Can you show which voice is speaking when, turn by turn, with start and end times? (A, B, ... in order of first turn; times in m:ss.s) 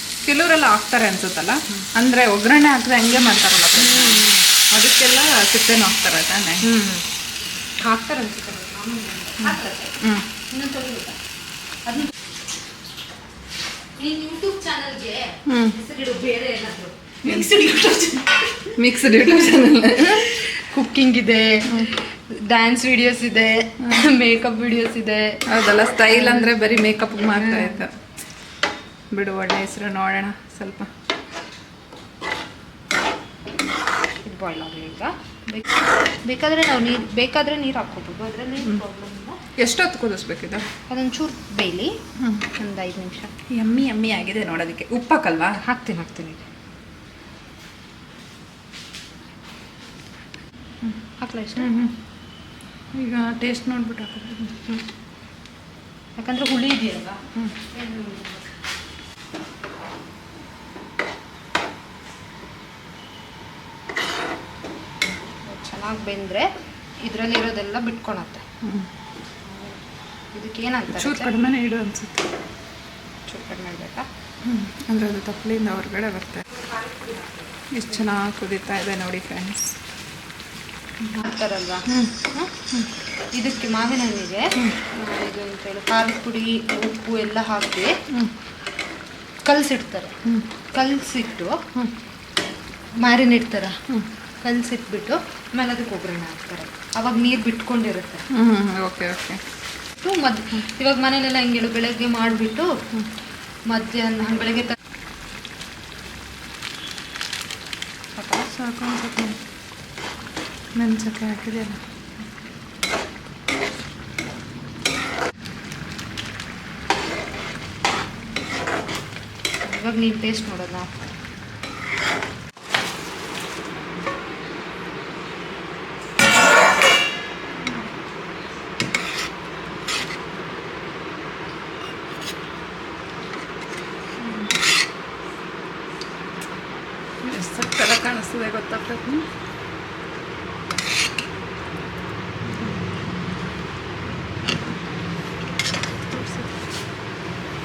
0:00.2-0:06.6 A
0:03.8-0:04.5 B
0:06.6-0:07.0 B
0:07.8-0:10.0 B
0:09.4-0:10.3 A
0:10.5-0:11.2 B
0:11.8-0:12.1 B
0:14.0-0:25.4 B
0:15.5-0:15.8 A
0:17.2-0:17.6 A
0:18.8-0:20.4 A
0:21.7-0:21.9 A
0:25.5-0:27.9 A
0:26.1-0:27.8 B
0:29.1-0:30.9 A
0:34.2-0:39.4 B
0:39.6-0:40.7 A
0:40.9-0:42.0 B
0:42.2-0:42.5 A
0:42.6-0:43.3 B
0:43.5-0:45.6 A
0:45.6-0:46.4 B
0:51.2-0:51.7 B
0:51.6-0:52.0 A
0:52.9-0:54.5 A
0:56.2-0:58.4 B
1:05.5-1:06.5 B
1:07.0-1:08.4 B
1:08.6-1:08.9 A
1:09.5-1:09.8 B
1:10.3-1:11.3 B
1:10.9-1:12.3 A
1:13.3-1:14.1 B
1:14.4-1:16.4 A
1:16.5-1:17.5 B
1:17.7-1:19.8 A
1:21.2-1:22.6 B
1:21.9-1:22.2 A
1:23.3-1:28.0 B
1:29.4-1:30.2 B
1:30.7-1:31.6 B
1:33.0-1:33.8 B
1:34.4-1:38.3 B
1:38.3-1:39.4 A
1:40.0-1:42.8 B
1:43.7-1:44.8 B
1:48.2-1:48.5 B
1:48.5-1:49.4 A
1:50.8-1:51.8 A
1:59.6-2:01.0 B
2:14.2-2:14.5 A
2:17.2-2:19.3 A
2:26.1-2:26.5 A